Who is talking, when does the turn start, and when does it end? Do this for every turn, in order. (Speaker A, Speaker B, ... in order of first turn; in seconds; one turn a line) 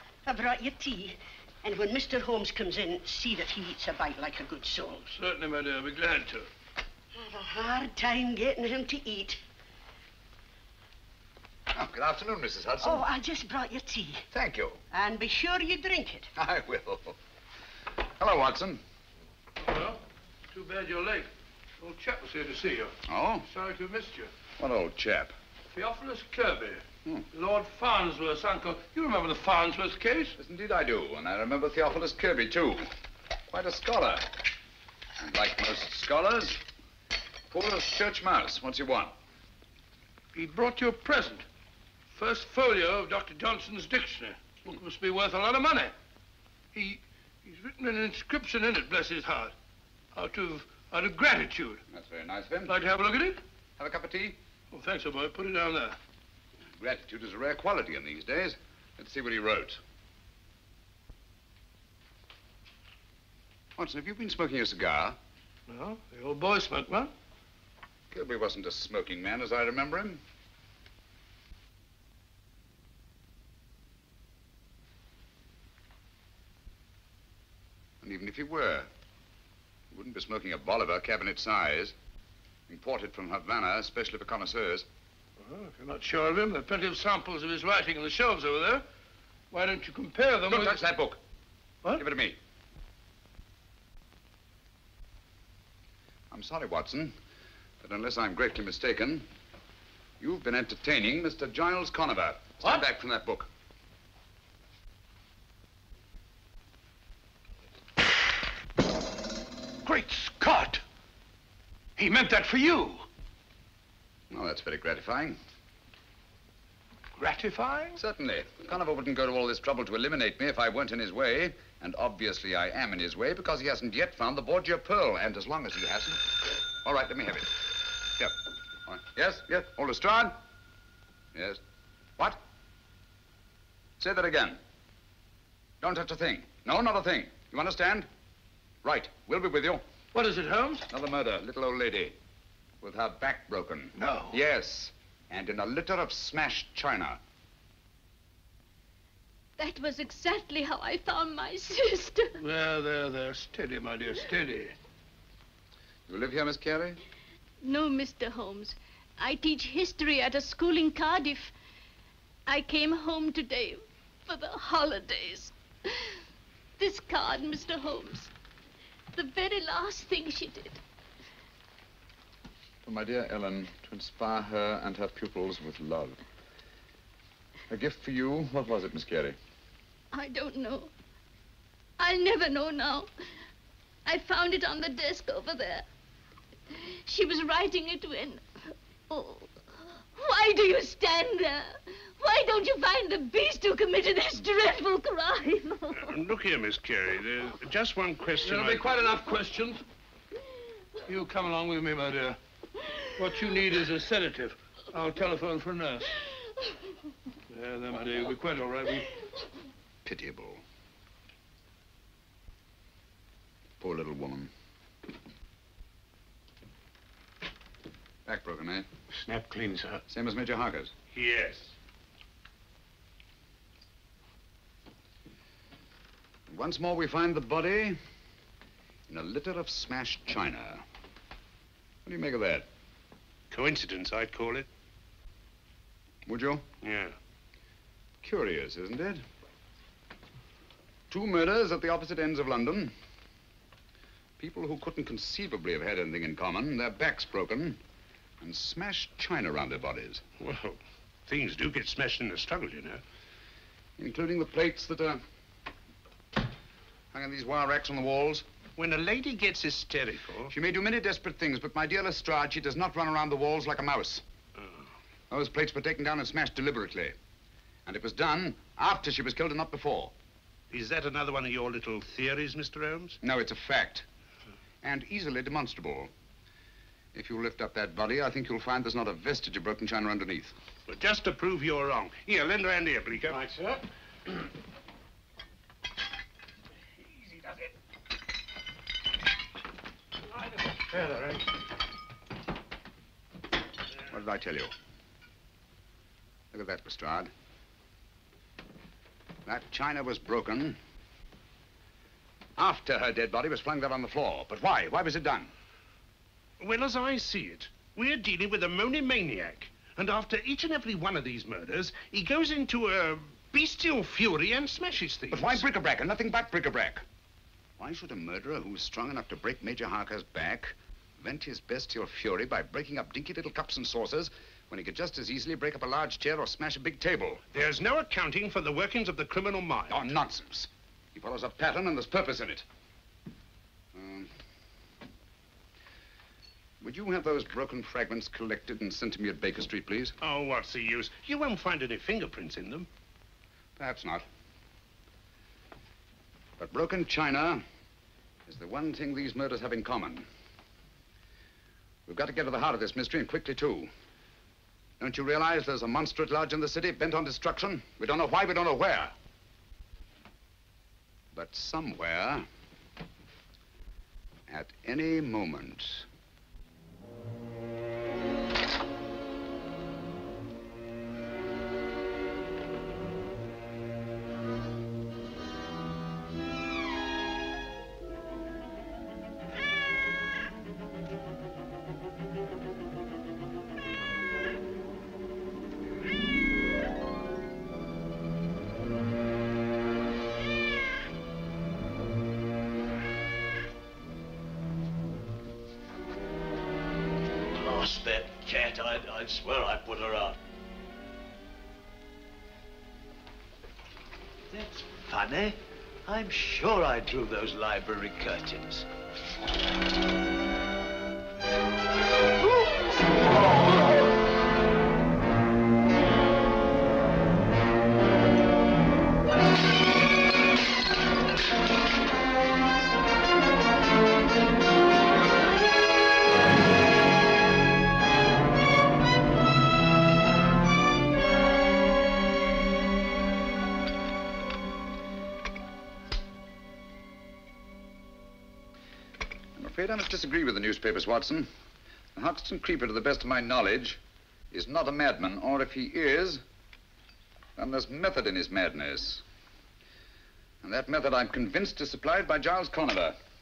Speaker A: 0.2-5.0
Speaker B: 5.0-6.5
Speaker A: 7.1-9.4
Speaker C: 11.7-13.1
Speaker A: 12.8-14.3
Speaker C: 14.3-14.8
Speaker A: 14.9-16.3
Speaker C: 16.3-17.1
Speaker C: 18.2-18.8
Speaker B: 19.6-24.3
Speaker C: 23.1-23.4
Speaker C: 24.6-25.3
Speaker B: 25.7-30.4
Speaker C: 30.4-32.9
Speaker C: 33.5-34.3
Speaker C: 35.2-36.6
Speaker C: 37.5-39.1
Speaker B: 40.3-41.4
Speaker B: 42.1-45.9
Speaker B: 46.7-49.5
Speaker B: 50.1-51.8
Speaker C: 51.9-52.7
Speaker B: 52.6-53.4
Speaker C: 53.8-54.4
Speaker B: 54.7-56.0
Speaker C: 56.8-59.8
Speaker C: 63.8-65.2
Speaker B: 65.7-67.1
Speaker C: 68.1-70.2
Speaker C: 78.0-78.9
Speaker C: 79.9-81.9
Speaker C: 82.7-84.9
Speaker B: 85.4-88.8
Speaker B: 89.5-90.8
Speaker C: 90.5-91.2
Speaker C: 91.9-92.4
Speaker C: 96.3-97.1
Speaker C: 97.8-99.3
Speaker C: 100.2-103.5
Speaker B: 109.8-110.8
Speaker B: 112.0-113.0
Speaker C: 114.3-115.4
Speaker B: 117.2-118.0
Speaker C: 118.0-127.5
Speaker C: 128.2-130.3
Speaker C: 131.3-131.6
Speaker C: 134.0-134.6
Speaker C: 135.8-138.1
Speaker C: 138.8-139.8
Speaker B: 140.1-140.9
Speaker C: 140.9-142.2
Speaker C: 142.8-147.2
Speaker B: 143.9-144.4
Speaker D: 149.6-152.3
Speaker B: 152.4-154.7
Speaker C: 156.1-157.0
Speaker D: 157.6-161.5
Speaker D: 162.5-165.5
Speaker D: 166.8-168.3
Speaker D: 169.1-170.8
Speaker C: 172.8-176.2
Speaker C: 177.7-179.3
Speaker D: 180.1-180.9
Speaker D: 182.0-183.1
Speaker D: 184.1-185.8
Speaker D: 187.0-188.5
Speaker D: 189.1-189.5
Speaker D: 190.2-196.1
Speaker E: 196.0-199.1
Speaker B: 198.4-199.8
Speaker B: 201.1-202.4
Speaker B: 203.2-206.1
Speaker B: 207.5-209.1
Speaker C: 210.0-210.6
Speaker C: 213.8-214.5
Speaker C: 218.2-218.9
Speaker E: 219.2-220.0
Speaker C: 220.1-220.9
Speaker E: 221.1-221.7
Speaker C: 226.5-228.0
Speaker C: 229.1-230.8
Speaker C: 232.0-232.7
Speaker E: 233.5-234.7
Speaker C: 236.2-236.7
Speaker E: 236.8-237.1
Speaker C: 238.2-239.2
Speaker C: 241.1-242.9
Speaker C: 244.4-247.8
Speaker C: 248.4-250.2
Speaker E: 250.4-253.0
Speaker C: 254.0-255.2
Speaker C: 257.1-258.4
Speaker E: 258.8-260.5
Speaker C: 260.5-264.2
Speaker C: 265.3-267.1
Speaker C: 267.9-270.1
Speaker E: 270.7-273.2
Speaker C: 273.2-274.1
Speaker C: 274.8-276.1
Speaker C: 277.1-280.5
Speaker E: 280.9-283.8
Speaker C: 294.1-294.7
Speaker C: 296.5-297.3
Speaker C: 299.4-300.8
Speaker C: 302.6-305.5
Speaker E: 306.6-315.6
Speaker C: 315.3-317.0
Speaker C: 317.8-327.4
Speaker E: 327.5-330.1
Speaker C: 329.9-332.6
Speaker C: 333.9-334.3
Speaker C: 336.8-340.1
Speaker E: 340.2-342.9
Speaker C: 343.8-344.2
Speaker C: 346.6-347.6
Speaker C: 348.4-350.3
Speaker C: 352.1-353.9
Speaker C: 355.0-359.1
Speaker C: 361.3-362.5
Speaker C: 364.5-366.1
Speaker F: 397.6-400.3
Speaker F: 404.5-408.8
Speaker C: 439.6-441.5
Speaker C: 442.1-444.0
Speaker C: 444.5-446.4
Speaker C: 447.6-449.2
Speaker C: 450.6-453.2